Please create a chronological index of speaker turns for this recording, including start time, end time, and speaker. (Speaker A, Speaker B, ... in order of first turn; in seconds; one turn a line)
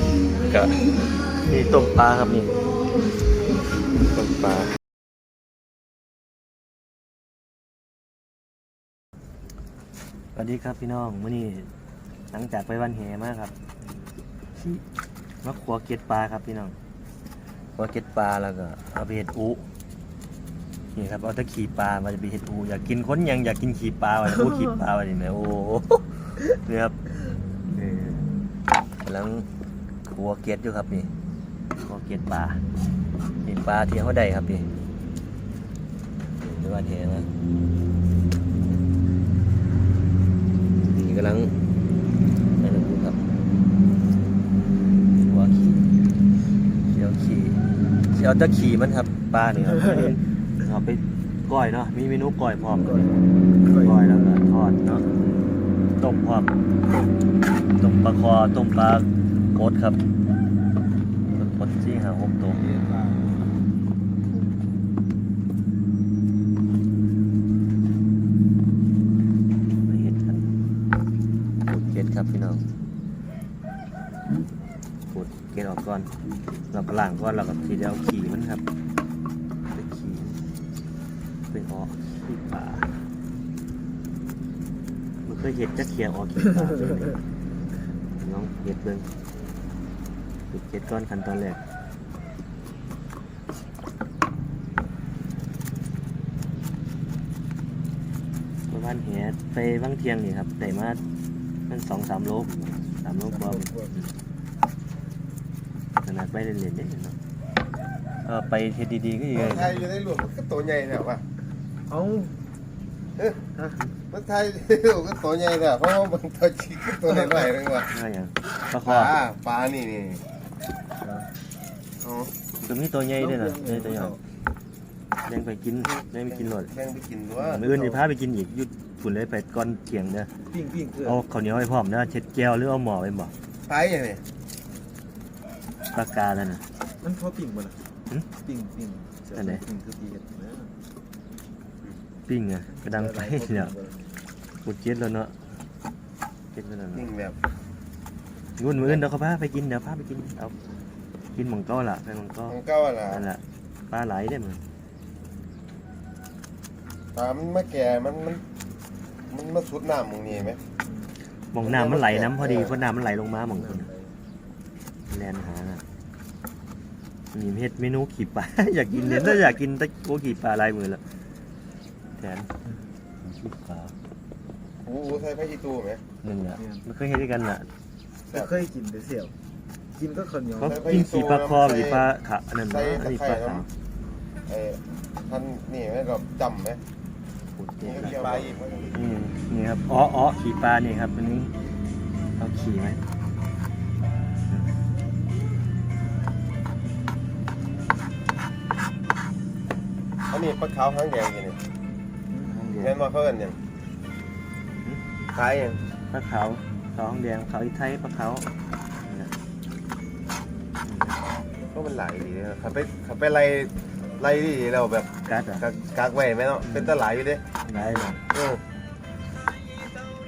Speaker A: 0.5-0.8
Speaker A: 1.4-2.5
Speaker A: 4.1-4.7
Speaker A: 10.4-11.7
Speaker A: 12.3-13.5
Speaker A: 14.6-14.8
Speaker A: 15.4-16.8
Speaker A: 17.8-19.7
Speaker A: 20.9-27.0
Speaker A: 27.7-28.3
Speaker A: 29.0-29.5
Speaker A: 30.1-31.1
Speaker A: 31.8-32.6
Speaker A: 33.5-34.7
Speaker A: 36.5-37.3
Speaker A: 40.9-41.5
Speaker A: 42.6-43.2
Speaker A: 45.2-45.9
Speaker A: 46.9-53.2
Speaker B: 52.8-54.1
Speaker A: 53.7-55.1
Speaker A: 56.0-56.5
Speaker A: 57.8-60.0
Speaker A: 61.3-62.6
Speaker B: 62.5-63.5
Speaker A: 69.8-70.5
Speaker A: 71.7-72.7
Speaker A: 75.1-76.1
Speaker A: 76.7-78.6
Speaker A: 79.7-80.3
Speaker A: 81.5-82.9
Speaker A: 85.2-87.2
Speaker A: 88.2-89.1
Speaker A: 90.5-91.6
Speaker A: 98.7-101.0
Speaker A: 101.7-104.1
Speaker B: 103.2-104.0
Speaker A: 106.0-107.2
Speaker A: 108.2-109.8
Speaker C: 109.3-111.2
Speaker B: 111.9-112.4
Speaker C: 114.1-117.9
Speaker B: 117.1-117.5
Speaker A: 117.9-119.2
Speaker C: 118.8-120.2
Speaker C: 122.0-122.3
Speaker A: 122.6-124.2
Speaker B: 123.2-124.2
Speaker A: 125.3-126.7
Speaker C: 126.3-127.7
Speaker A: 127.4-130.3
Speaker B: 130.5-131.2
Speaker A: 131.0-133.3
Speaker C: 133.7-134.2
Speaker A: 135.9-136.6
Speaker B: 137.0-137.8
Speaker B: 138.4-140.7
Speaker A: 139.3-139.6
Speaker A: 142.3-143.7
Speaker B: 142.7-144.2
Speaker A: 144.6-145.5
Speaker A: 146.5-147.1
Speaker C: 146.9-147.4
Speaker A: 148.6-150.6
Speaker A: 151.3-152.6
Speaker C: 152.5-153.3
Speaker A: 153.1-154.6
Speaker C: 157.1-158.4
Speaker C: 159.3-160.6
Speaker A: 161.5-163.9
Speaker C: 161.6-162.7
Speaker B: 163.6-164.2
Speaker A: 165.1-165.8
Speaker A: 167.3-171.0
Speaker A: 172.2-172.5
Speaker A: 173.2-173.9
Speaker C: 174.8-176.0
Speaker A: 176.2-177.7
Speaker B: 176.6-176.8
Speaker B: 178.3-179.3
Speaker B: 179.9-180.8
Speaker A: 180.6-183.7
Speaker C: 180.6-182.0
Speaker C: 182.7-183.7
Speaker C: 184.5-186.8
Speaker A: 187.6-191.5
Speaker C: 187.8-189.0
Speaker A: 192.4-193.0
Speaker C: 200.3-201.6
Speaker B: 202.3-202.6
Speaker A: 202.4-203.0
Speaker C: 202.8-203.6
Speaker C: 205.3-205.8
Speaker A: 206.1-208.5
Speaker A: 209.1-209.3
Speaker A: 210.8-211.2
Speaker C: 211.7-217.4
Speaker A: 215.2-215.7
Speaker A: 216.7-217.0
Speaker A: 217.7-218.2
Speaker B: 217.8-218.2
Speaker C: 218.3-218.6